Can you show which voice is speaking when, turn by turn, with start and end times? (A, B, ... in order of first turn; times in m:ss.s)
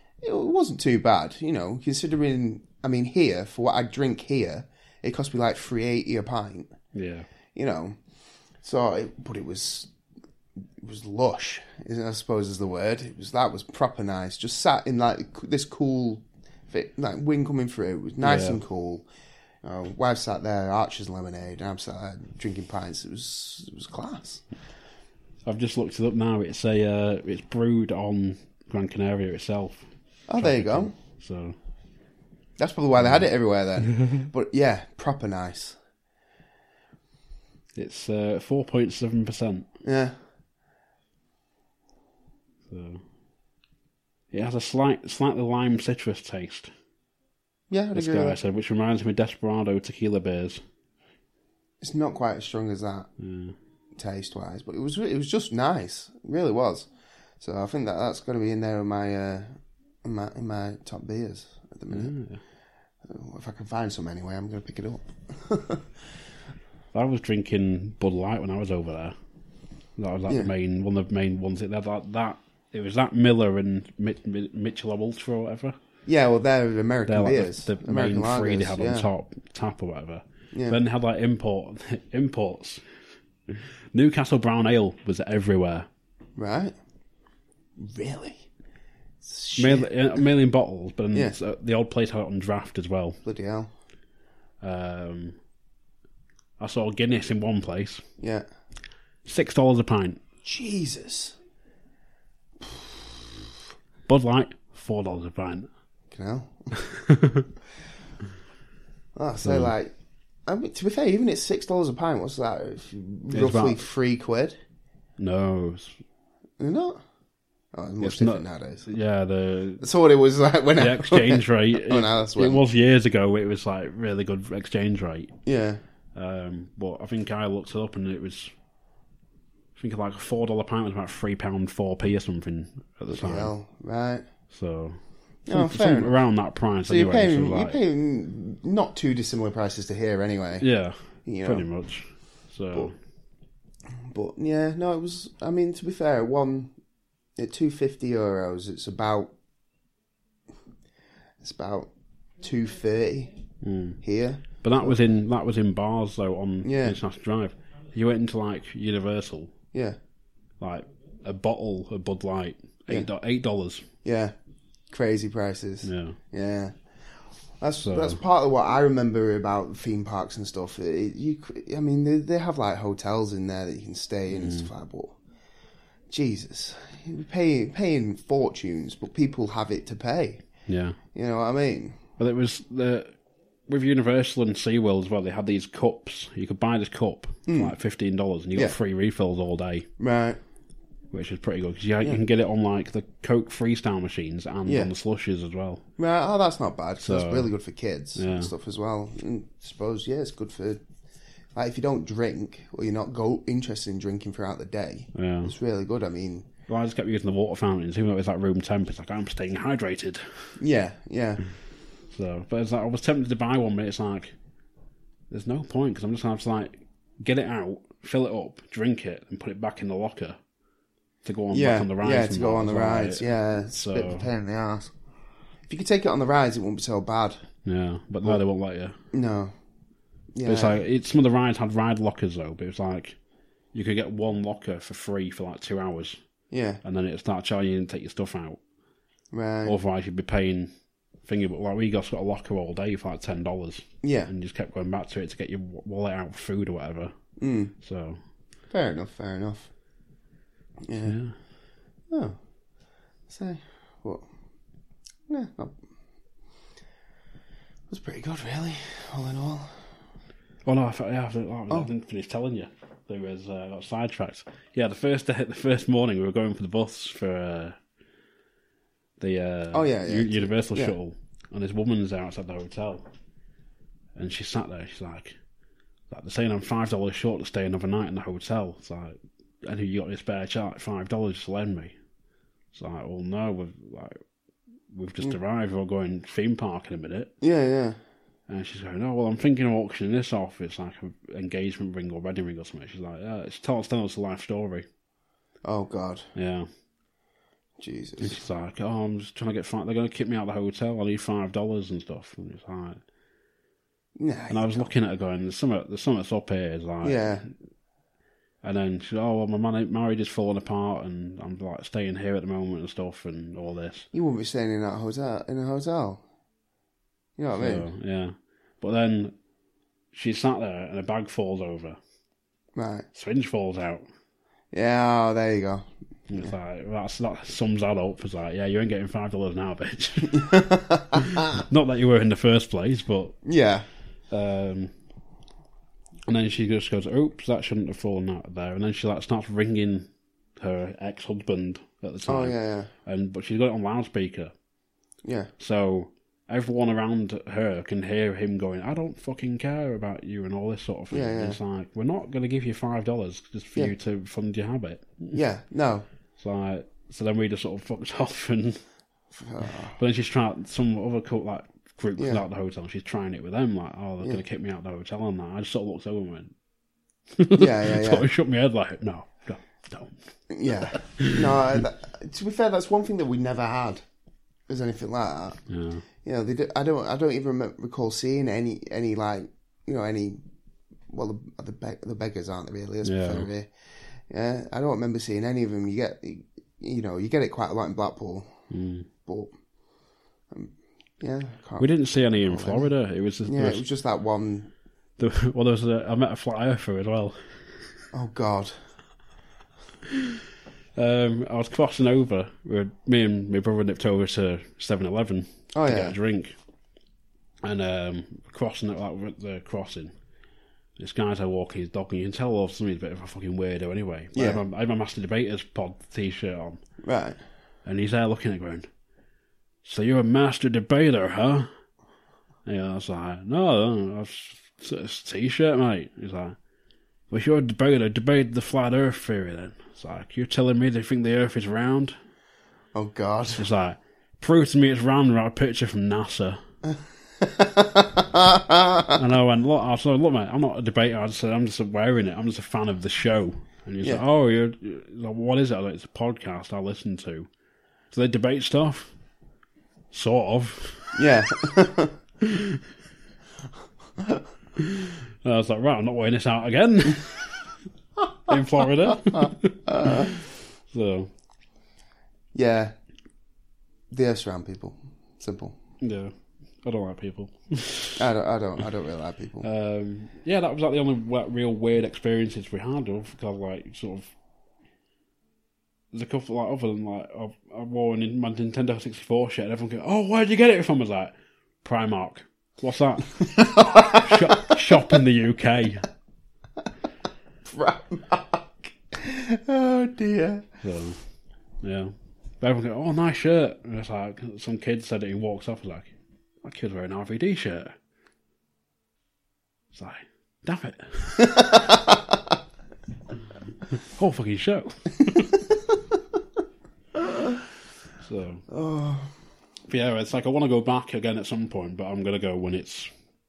0:00.2-0:06.7 A
0:06.9-0:07.3 B
0:07.5-0:08.0 A
0:08.6-0:09.9 A
0:10.8-0:19.0 A
0:18.2-0:18.6 B
0:19.6-0:24.4 A
0:25.4-0:31.6 B
0:30.3-0:30.9 A
0:32.6-0:35.8 A
0:33.0-0:33.3 B
0:37.7-0:39.7 B
0:39.8-0:40.2 A
0:42.7-0:43.0 B
0:44.3-0:46.7 B
0:47.7-0:48.4 A
0:47.9-0:50.6 B
0:51.8-0:53.1 A
0:53.2-0:53.5 B
0:54.0-0:56.9 A
0:57.4-1:02.1 A
1:01.9-1:02.4 B
1:03.0-1:05.9 A
1:06.9-1:09.1 B
1:10.0-1:15.8 B
1:16.0-1:19.1 A
1:17.1-1:22.8 B
1:20.5-1:20.8 A
1:23.5-1:25.9 B
1:26.4-1:26.7 A
1:27.8-1:28.4 A
1:29.2-1:30.2 A
1:29.6-1:33.2 B
1:33.2-1:33.7 A
1:34.6-1:35.4 B
1:36.6-1:38.0 B
1:38.2-1:38.4 A
1:39.2-1:40.2 B
1:40.4-1:41.4 A
1:42.6-1:42.9 A
1:44.1-1:45.7 B
1:46.1-1:46.7 A
1:46.8-1:47.4 B
1:49.2-1:49.9 A
1:49.4-1:49.7 B
1:50.4-1:54.6 A
1:53.3-1:53.8 B
1:55.2-1:56.0 B
1:56.6-1:57.0 A
1:57.7-1:58.9 A
1:58.0-1:59.8 B
1:59.8-2:02.6 A
2:00.8-2:05.3 B
2:05.4-2:05.8 A
2:06.1-2:08.5 B
2:09.8-2:13.5 B
2:13.1-2:14.2 A
2:14.5-2:17.8 B
2:15.4-2:16.2 A
2:16.9-2:20.7 A
2:20.6-2:22.9 B
2:21.2-2:21.6 A
2:24.1-2:26.7 A
2:27.4-2:29.3 A
2:31.4-2:31.9 A
2:32.4-2:33.4 A
2:33.6-2:34.0 B
2:34.0-2:35.0 A
2:34.6-2:39.5 B
2:36.6-2:37.0 A
2:39.7-2:40.0 A
2:40.6-2:43.9 B
2:44.0-2:44.3 A
2:44.9-2:46.7 A
2:45.8-2:46.2 B
2:47.6-2:55.2 A
2:47.8-2:48.2 B
2:54.3-2:54.7 B
2:56.1-3:00.4 A
3:00.7-3:01.0 B
3:01.1-3:02.0 A
3:02.2-3:03.1 B
3:03.7-3:09.9 B
3:07.5-3:07.7 A
3:10.0-3:10.4 A
3:11.1-3:15.8 B
3:14.6-3:14.9 A
3:16.0-3:20.8 A
3:17.0-3:17.5 B
3:18.1-3:18.5 B
3:21.5-3:26.5 A
3:25.1-3:25.5 B
3:26.7-3:30.5 B
3:30.6-3:31.4 A
3:32.1-3:34.3 B
3:35.3-3:40.4 B
3:41.2-3:44.3 B
3:41.5-3:44.9 A
3:45.7-3:47.4 A
3:47.6-3:49.0 B
3:49.1-3:49.5 A
3:50.3-3:50.8 A
3:50.4-3:53.2 B
3:53.7-3:56.2 B
3:56.5-3:56.8 A
3:56.8-3:58.6 B
3:59.3-3:59.8 A
3:59.6-4:00.7 B
4:01.2-4:07.1 B
4:04.0-4:04.3 A
4:07.4-4:07.7 A
4:07.8-4:08.2 B
4:08.7-4:09.7 A
4:10.8-4:11.2 A
4:11.0-4:11.4 B
4:12.1-4:12.4 A
4:13.3-4:14.3 A
4:15.3-4:15.8 A
4:17.9-4:19.8 A
4:20.6-4:27.8 B
4:29.2-4:33.0 B
4:29.7-4:30.9 A
4:34.1-4:35.4 B
4:36.1-4:41.9 B
4:42.7-4:44.2 B
4:44.9-4:47.3 B
4:47.4-4:48.0 A
4:48.5-4:54.8 B
4:55.6-4:56.3 A
4:56.3-4:56.7 B
4:57.8-4:58.4 A
4:58.2-5:03.0 B
5:04.2-5:04.9 A
5:04.5-5:07.3 B
5:07.0-5:07.5 A
5:08.6-5:14.1 B
5:14.1-5:16.2 A
5:17.4-5:17.8 A
5:17.5-5:19.3 B
5:20.1-5:22.0 B
5:22.7-5:23.1 A
5:23.1-5:24.0 B
5:24.7-5:26.5 A
5:26.3-5:30.5 B
5:30.3-5:31.4 A
5:31.2-5:33.4 B
5:33.4-5:33.9 A
5:34.3-5:34.9 B
5:36.3-5:44.5 B
5:42.3-5:42.9 A
5:45.2-5:45.5 A
5:45.6-5:55.4 B
5:51.1-5:51.6 A
5:55.3-5:56.0 A
5:56.4-5:58.8 B
5:59.3-6:00.0 A
6:00.0-6:06.5 B
6:02.2-6:02.4 A
6:07.3-6:10.2 B
6:07.6-6:08.3 A
6:10.5-6:14.0 A
6:10.8-6:11.4 B
6:14.7-6:15.6 A
6:15.7-6:16.0 B
6:16.2-6:20.4 A
6:21.1-6:23.7 A
6:23.0-6:23.5 B
6:24.3-6:28.5 A
6:28.7-6:29.1 B
6:29.2-6:29.5 A
6:30.5-6:32.9 A
6:31.8-6:33.8 B
6:33.4-6:34.7 A
6:35.2-6:37.6 B
6:38.1-6:38.8 A
6:41.0-6:46.5 B
6:45.7-6:46.2 A
6:47.6-6:50.1 B
6:51.0-6:56.8 B
6:54.3-6:54.6 A
6:57.0-6:57.4 A
6:57.8-6:58.9 B
6:59.8-7:01.7 B
7:02.6-7:06.6 B
7:07.3-7:12.2 B
7:12.9-7:13.7 A
7:13.6-7:16.6 B
7:16.9-7:19.1 A
7:19.1-7:27.5 B
7:28.1-7:29.1 B
7:30.1-7:31.2 B
7:31.1-7:32.1 A
7:32.4-7:32.8 B
7:34.8-7:37.7 B
7:38.5-7:40.4 B
7:39.2-7:40.4 A
7:40.9-7:41.3 B
7:42.5-7:42.9 A
7:44.1-7:45.8 A
7:46.0-7:46.3 B
7:46.8-7:48.2 B
7:48.2-7:49.7 A
7:49.6-7:54.3 B
7:56.1-8:06.1 B
8:03.5-8:04.7 A
8:07.6-8:10.6 A
8:10.8-8:11.2 B
8:11.8-8:17.9 B
8:19.9-8:21.6 B
8:21.4-8:22.2 A
8:23.9-8:25.5 B
8:27.2-8:27.6 A
8:28.2-8:28.6 B
8:28.7-8:29.3 A
8:29.9-8:33.1 B